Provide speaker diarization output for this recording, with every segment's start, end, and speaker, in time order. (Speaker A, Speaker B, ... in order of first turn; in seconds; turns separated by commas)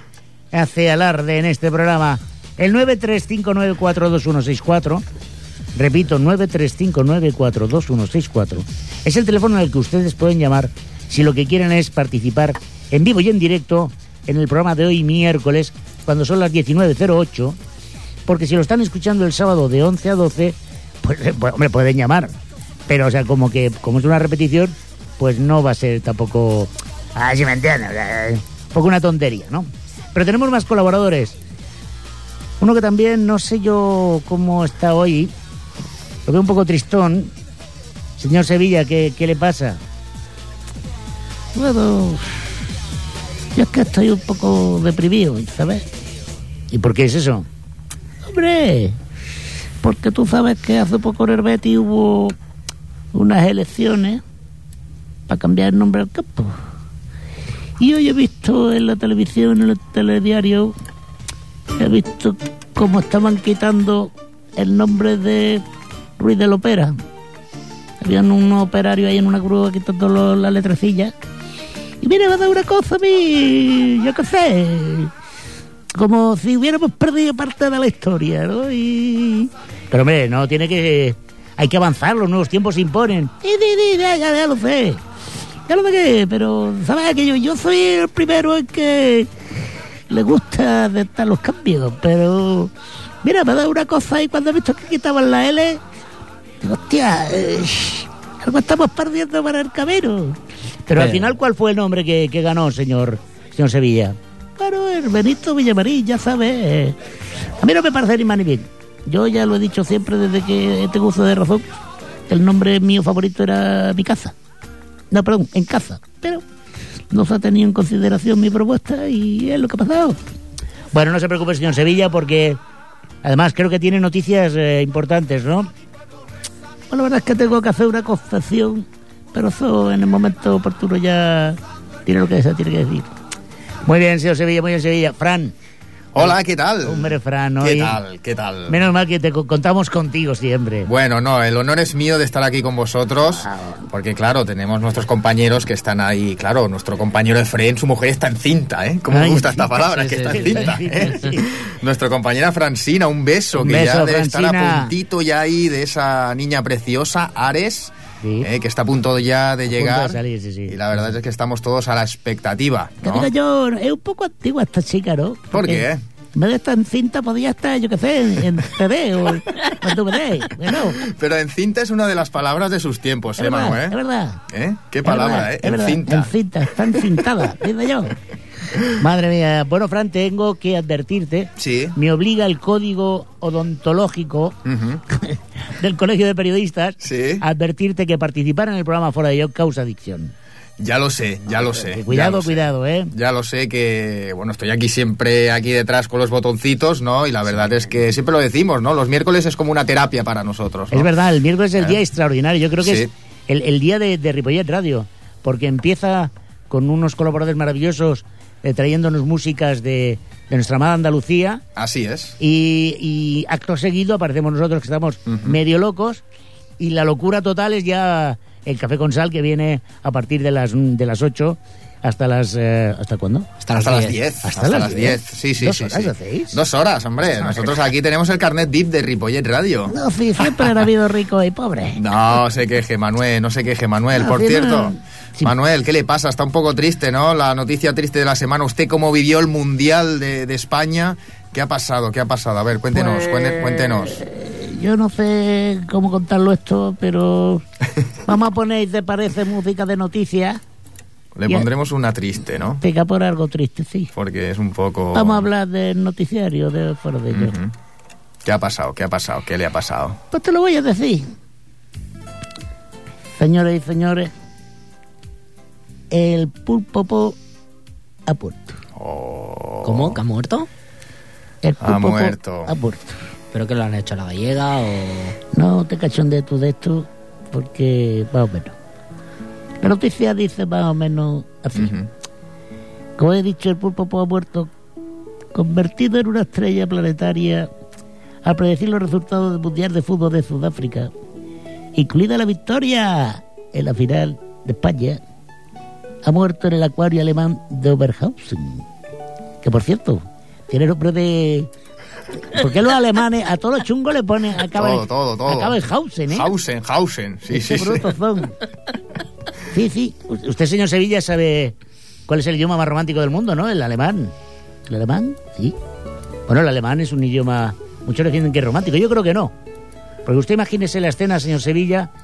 Speaker A: 0.5-5.0, Speaker A: 5.8-17.6, Speaker A: 18.3-22.4, Speaker A: 22.9-31.4, Speaker A: 32.6-35.3, Speaker A: 36.3-37.3, Speaker A: 38.2-39.8, Speaker A: 41.5-42.5, Speaker A: 43.5-45.8, Speaker A: 46.7-47.5, Speaker A: 48.2-49.0, Speaker A: 49.8-52.4, Speaker A: 53.1-54.2, Speaker A: 55.3-56.6, Speaker A: 57.8-60.8, Speaker A: 61.8-65.7, Speaker A: 66.2-66.9, Speaker A: 68.0-71.2, Speaker A: 72.0-75.1, Speaker A: 76.0-85.0, Speaker A: 85.7-89.3, Speaker A: 90.1-92.7, Speaker A: 93.2-95.8, Speaker A: 96.6-107.0, Speaker B: 101.0-101.3, Speaker A: 107.6-111.7, Speaker A: 112.3-114.3, Speaker A: 115.1-116.4, Speaker A: 117.1-120.2, Speaker A: 120.9-122.6, Speaker A: 123.2-125.7, Speaker A: 126.9-133.1, Speaker A: 133.8-135.5, Speaker C: 136.1-138.8, Speaker A: 136.2-138.0, Speaker A: 138.7-140.9, Speaker C: 140.9-163.3, Speaker A: 143.3-143.8, Speaker A: 149.1-151.5, Speaker B: 149.8-151.3, Speaker A: 153.6-154.9, Speaker A: 158.2-158.5, Speaker A: 159.7-160.8, Speaker A: 163.0-171.0, Speaker C: 165.5-166.0, Speaker C: 171.0-174.0, Speaker A: 173.4-174.4, Speaker C: 174.5-176.3, Speaker A: 175.0-178.2, Speaker A: 178.9-184.6, Speaker C: 181.6-181.9, Speaker C: 184.7-185.0, Speaker A: 185.1-190.3, Speaker C: 187.0-187.4, Speaker C: 190.8-201.1, Speaker A: 191.7-193.1, Speaker A: 200.9-211.6, Speaker C: 202.8-203.1, Speaker C: 211.8-212.4, Speaker A: 212.4-216.2, Speaker C: 215.3-215.6, Speaker A: 216.8-223.5, Speaker B: 223.6-224.2, Speaker C: 223.8-230.8, Speaker A: 224.4-226.6, Speaker A: 229.9-232.0, Speaker C: 232.0-244.2, Speaker A: 234.2-235.5, Speaker A: 242.9-247.6, Speaker A: 248.3-250.6, Speaker C: 251.3-252.8, Speaker A: 252.8-254.1, Speaker C: 254.2-255.5, Speaker A: 255.1-257.6, Speaker C: 257.3-257.7, Speaker C: 258.4-260.2, Speaker A: 260.3-261.3, Speaker A: 263.4-264.3, Speaker A: 266.1-267.4, Speaker A: 268.3-268.8, Speaker C: 268.9-270.2, Speaker B: 269.8-270.7, Speaker A: 271.6-273.2, Speaker C: 271.8-272.7, Speaker B: 273.5-275.4, Speaker A: 275.5-278.7, Speaker A: 279.8-282.0, Speaker C: 281.8-282.1, Speaker A: 283.2-284.7, Speaker A: 285.5-287.7, Speaker A: 288.4-291.1, Speaker A: 291.9-295.2, Speaker A: 296.2-298.9, Speaker A: 299.6-301.7, Speaker A: 302.5-306.5, Speaker C: 304.6-308.1, Speaker A: 307.5-308.5, Speaker A: 309.7-311.8, Speaker A: 312.3-314.3, Speaker A: 314.9-315.8, Speaker A: 316.5-319.5, Speaker A: 320.2-322.1